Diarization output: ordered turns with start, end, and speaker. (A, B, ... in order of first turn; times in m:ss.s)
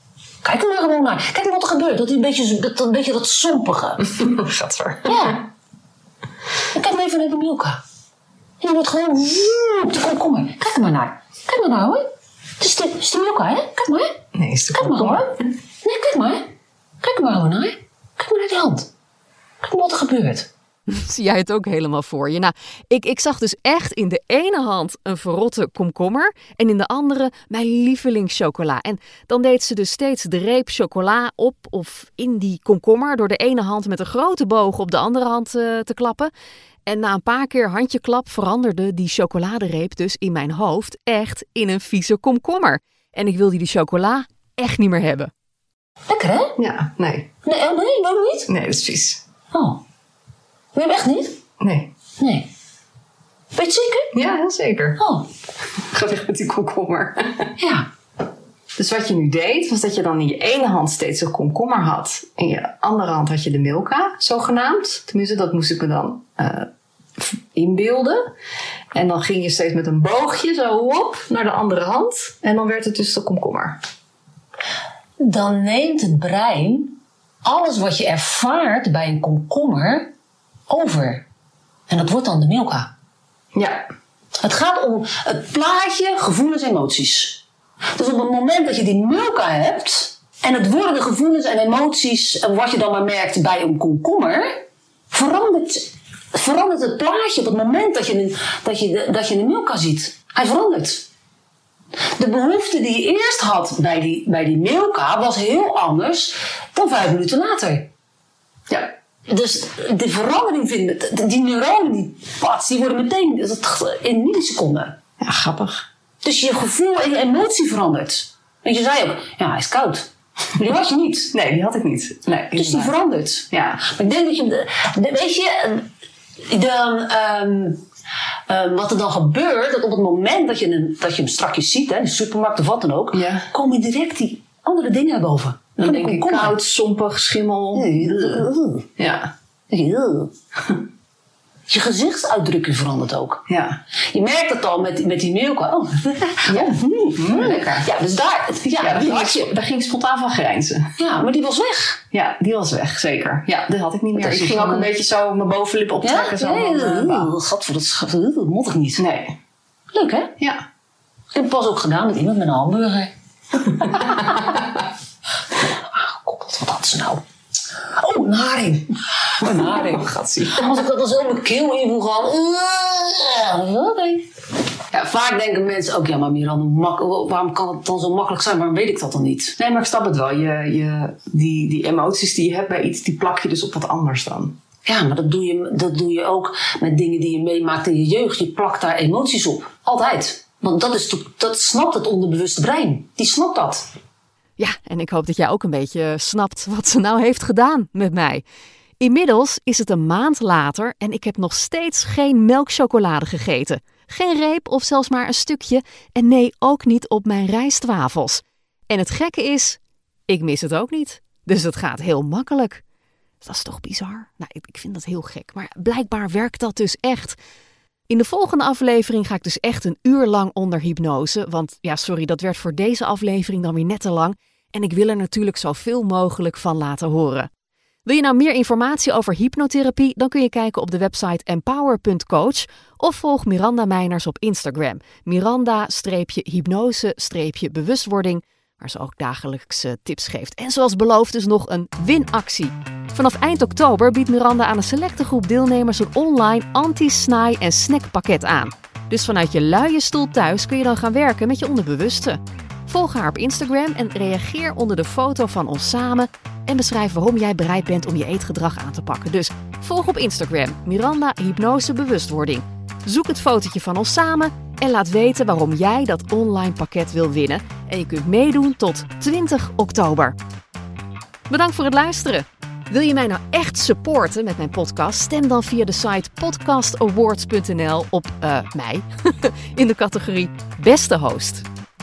0:00.4-0:04.2 A
0:04.1-0:05.3 B
0:05.0-0:05.4 A
0:06.7-0:07.8 A
0:08.6-0:12.1 A
0:12.6-0:14.2 A
0:14.3-0:15.3 B
0:14.7-0:16.5 A
0:17.0-0:18.9 A
0:19.6-0:20.5 A
0:20.9-0:36.3 C
0:36.9-0:45.3 C
0:46.1-0:46.6 A
0:46.6-0:47.3 B
0:47.4-0:48.5 A
0:48.5-0:49.2 B
0:49.5-0:49.8 A
0:50.7-0:51.4 A
0:51.6-0:51.9 B
0:52.2-0:52.5 A
0:53.5-0:54.1 A
0:54.1-0:55.0 B
0:55.0-0:55.3 A
0:55.8-0:57.5 B
0:57.6-0:57.9 A
0:58.7-1:08.3 B
1:08.9-1:13.8 B
1:15.2-1:20.1 A
1:20.7-1:21.2 A
1:21.9-1:22.9 A
1:23.5-1:23.9 B
1:24.4-1:27.4 A
1:28.0-1:41.0 A
1:42.2-1:47.9 A
1:49.3-1:55.0 A
1:55.2-1:55.9 B
1:56.2-2:01.3 A
2:01.3-2:02.9 B
2:02.5-2:05.9 A
2:03.5-2:03.8 B
2:06.5-2:07.8 A
2:08.5-2:16.6 A
2:13.1-2:13.5 B
2:15.8-2:18.4 B
2:17.7-2:18.9 A
2:19.0-2:19.3 B
2:19.7-2:20.3 A
2:21.7-2:23.4 A
2:23.5-2:23.8 B
2:24.1-2:29.5 A
2:26.4-2:27.9 B
2:28.8-2:31.0 B
2:31.0-2:32.0 A
2:32.1-2:37.3 B
2:34.2-2:34.9 A
2:36.0-2:39.0 A
2:39.0-2:39.4 B
2:39.9-2:40.4 A
2:41.3-2:43.1 A
2:43.8-2:44.6 A
2:45.6-2:47.2 A
2:48.0-2:54.3 A
2:49.5-2:50.7 B
2:54.9-2:59.6 A
2:59.6-3:04.6 B
3:04.8-3:13.9 A
3:14.6-3:18.4 C
3:19.0-3:32.8 C
3:33.4-3:37.4 C
3:38.1-3:47.5 C
3:48.0-4:30.3 C
4:31.5-4:41.6 C